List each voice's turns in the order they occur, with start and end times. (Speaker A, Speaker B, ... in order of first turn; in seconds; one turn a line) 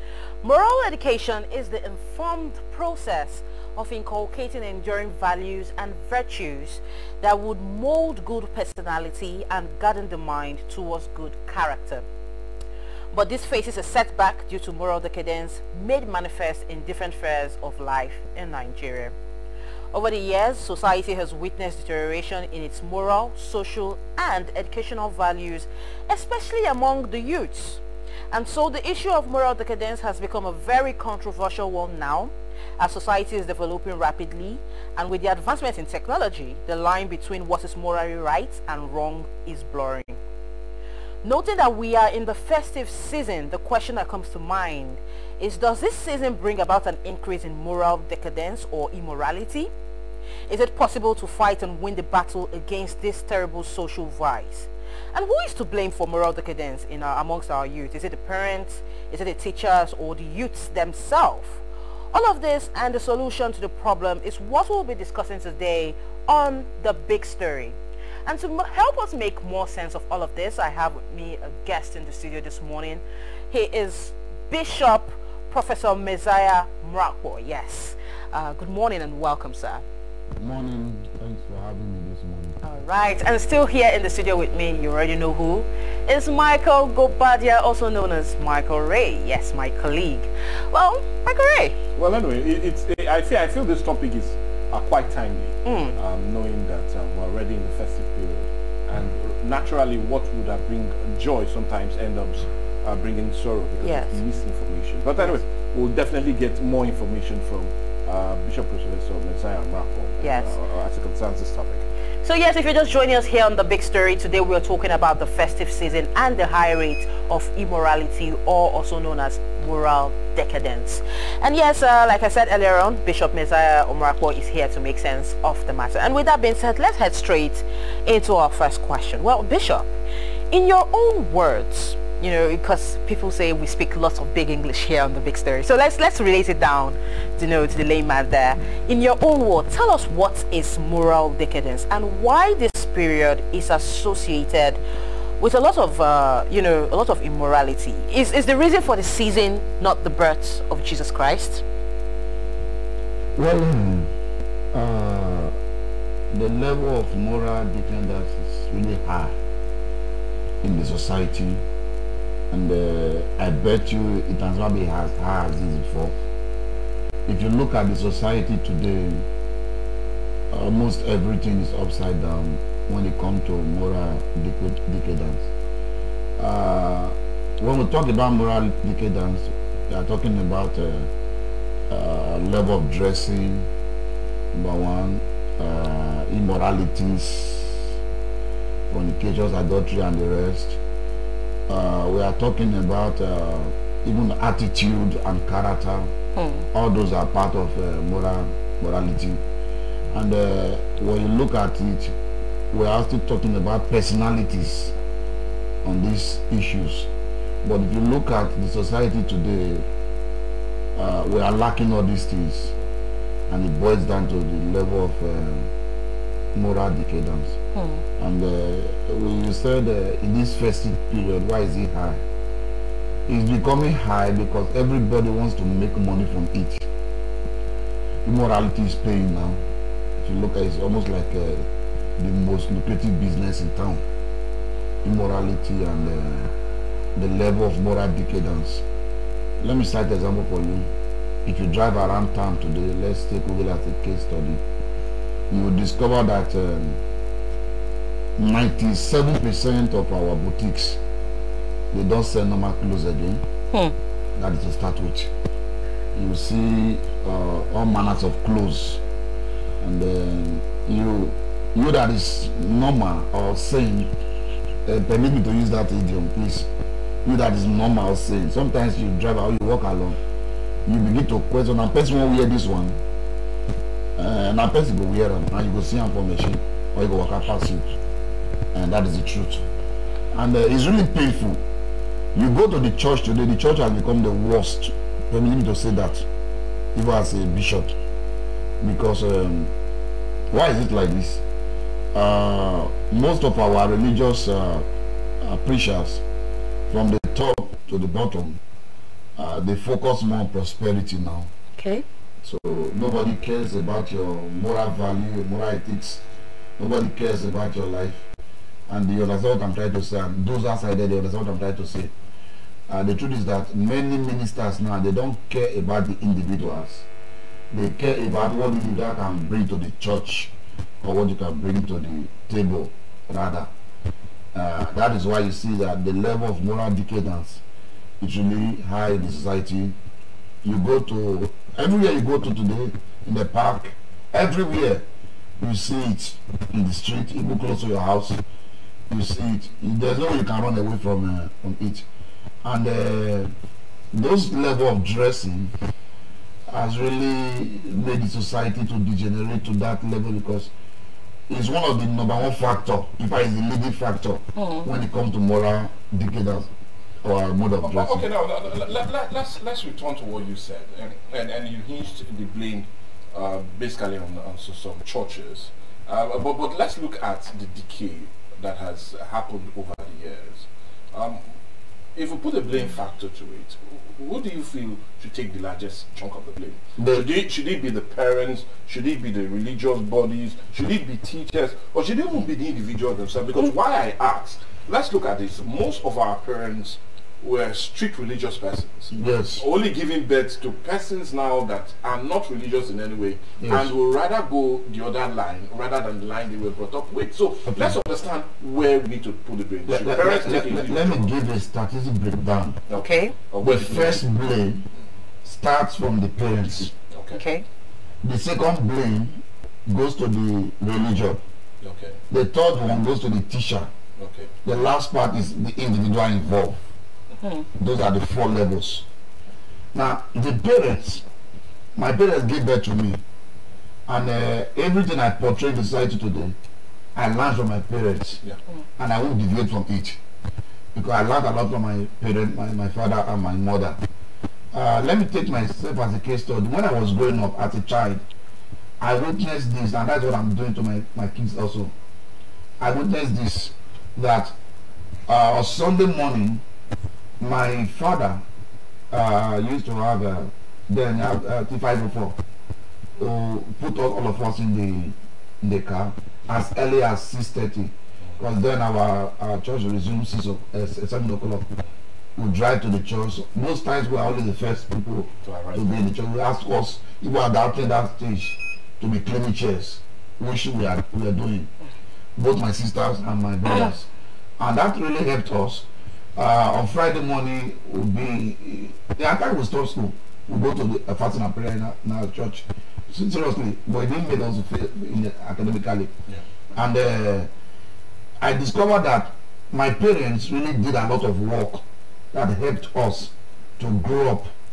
Speaker A: 0.4-12.1
Speaker A: 13.1-19.1
Speaker A: 19.9-40.2
Speaker A: 41.2-49.7
Speaker A: 50.5-79.8
Speaker B: 80.4-82.6
Speaker A: 82.6-91.7
Speaker C: 92.0-111.8
Speaker A: 95.6-96.0
Speaker A: 103.8-104.2
Speaker A: 110.2-110.5
Speaker A: 112.2-129.9
Speaker A: 130.5-144.8
Speaker A: 145.4-151.6
Speaker B: 153.3-154.1
Speaker B: 154.7-155.6
Speaker B: 156.3-159.3
Speaker B: 160.6-161.6
Speaker B: 162.5-166.1
Speaker B: 167.2-169.3
Speaker B: 170.5-175.4
Speaker B: 176.4-181.1
Speaker B: 181.9-183.7
Speaker B: 184.5-187.9
Speaker B: 188.9-190.8
Speaker B: 191.7-196.1
Speaker A: 196.3-196.7
Speaker B: 196.7-199.4
Speaker B: 200.1-202.1
Speaker B: 202.7-204.9
Speaker B: 205.8-207.1
Speaker B: 207.6-209.8
Speaker B: 210.9-212.7
Speaker B: 213.5-215.7
Speaker B: 216.5-217.6
Speaker A: 217.7-218.0
Speaker B: 218.2-222.2
Speaker B: 223.3-226.8
Speaker B: 228.2-229.6
Speaker B: 230.2-231.6
Speaker B: 232.2-234.0
Speaker B: 235.0-236.5
Speaker B: 237.2-238.8
Speaker B: 239.6-240.9
Speaker B: 241.4-244.6
Speaker B: 245.5-247.0
Speaker B: 248.4-251.0
Speaker B: 251.9-253.4
Speaker B: 254.3-255.3
Speaker B: 256.1-259.0
Speaker B: 259.8-264.1
Speaker B: 264.9-266.7
Speaker B: 267.2-270.2
Speaker B: 270.9-273.0
Speaker B: 274.2-277.9
Speaker B: 278.7-279.6
Speaker B: 280.3-281.6
Speaker B: 282.3-286.2
Speaker B: 286.9-287.9
Speaker B: 288.8-289.7
Speaker B: 290.5-291.4
Speaker B: 292.1-294.9
Speaker B: 295.4-296.2
Speaker B: 296.9-298.6
Speaker B: 299.4-301.5
Speaker A: 301.8-302.0
Speaker B: 302.4-306.2
Speaker B: 306.8-308.2
Speaker B: 308.9-312.1
Speaker B: 312.9-317.1
Speaker B: 317.7-323.7
Speaker B: 324.5-327.6
Speaker B: 328.2-329.9
Speaker B: 330.6-335.0
Speaker B: 335.6-338.4
Speaker B: 339.1-342.1
Speaker B: 342.6-343.5
Speaker B: 344.1-345.7
Speaker B: 346.7-350.7
Speaker B: 351.5-356.7
Speaker A: 354.6-354.9
Speaker B: 357.2-358.2
Speaker C: 357.8-371.4
Speaker C: 372.1-401.3
Speaker B: 377.0-377.3
Speaker B: 389.1-389.6
Speaker B: 393.6-393.9
Speaker B: 397.7-397.9
Speaker B: 399.9-402.8
Speaker C: 402.9-404.2
Speaker A: 402.9-403.4
Speaker B: 403.6-404.8
Speaker B: 405.4-406.9
Speaker C: 407.1-407.4
Speaker A: 407.3-407.6
Speaker B: 408.2-411.4
Speaker C: 411.8-412.2
Speaker B: 412.3-413.9
Speaker C: 414.2-414.5
Speaker B: 414.6-416.8
Speaker B: 417.8-419.0
Speaker B: 419.9-421.2
Speaker B: 421.9-423.2
Speaker B: 424.1-426.5
Speaker B: 427.1-428.4
Speaker B: 429.0-430.2
Speaker B: 430.9-434.0
Speaker B: 434.7-438.2
Speaker B: 439.0-441.9
Speaker B: 442.8-444.5
Speaker B: 445.3-446.6
Speaker B: 447.4-448.4
Speaker B: 449.1-452.4
Speaker B: 453.2-461.7
Speaker B: 462.4-471.7
Speaker C: 465.4-466.0
Speaker B: 472.4-474.1
Speaker B: 474.6-486.1
Speaker B: 486.8-487.5
Speaker B: 488.4-494.5